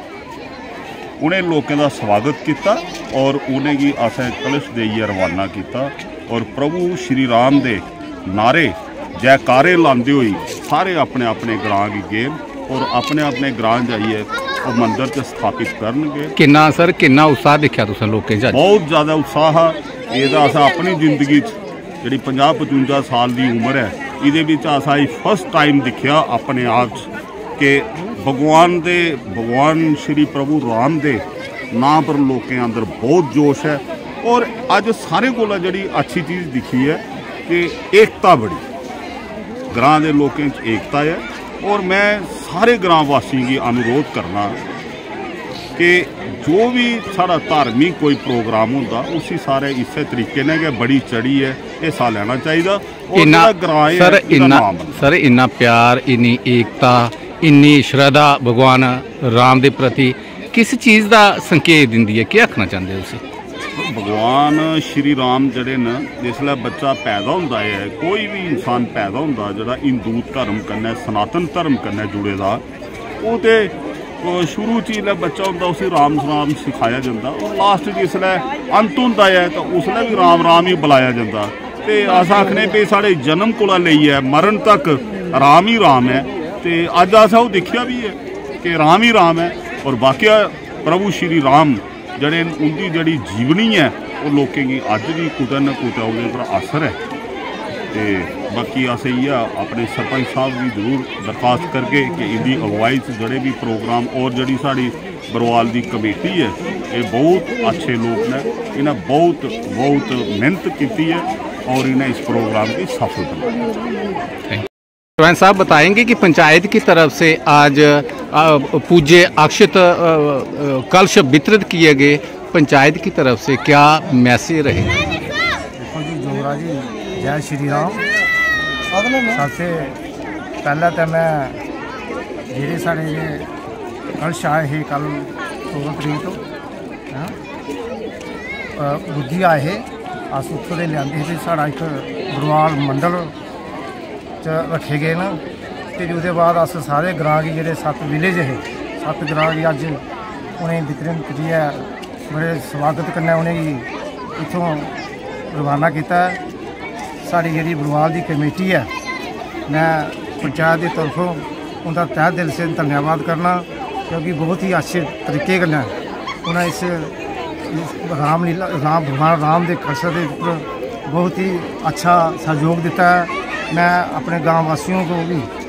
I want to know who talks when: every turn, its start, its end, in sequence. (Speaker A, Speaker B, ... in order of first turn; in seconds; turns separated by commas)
Speaker A: 1.2-16.3, Speaker B: 16.4-18.6, Speaker A: 18.5-38.6, Speaker A: 39.7-44.6, Speaker A: 45.8-55.0, Speaker B: 53.2-63.2, Speaker A: 63.8-72.6, Speaker A: 73.2-97.0, Speaker A: 97.9-113.6, Speaker B: 115.2-125.2, Speaker C: 125.8-128.1, Speaker C: 129.3-129.9, Speaker C: 130.6-131.6, Speaker C: 132.5-133.5, Speaker C: 134.2-136.4, Speaker C: 138.8-143.3, Speaker C: 144.4-145.4, Speaker C: 146.0-150.0, Speaker C: 150.6-154.9, Speaker C: 155.5-156.4, Speaker C: 157.2-158.9, Speaker C: 159.7-165.9, Speaker C: 166.4-167.1, Speaker C: 167.7-175.5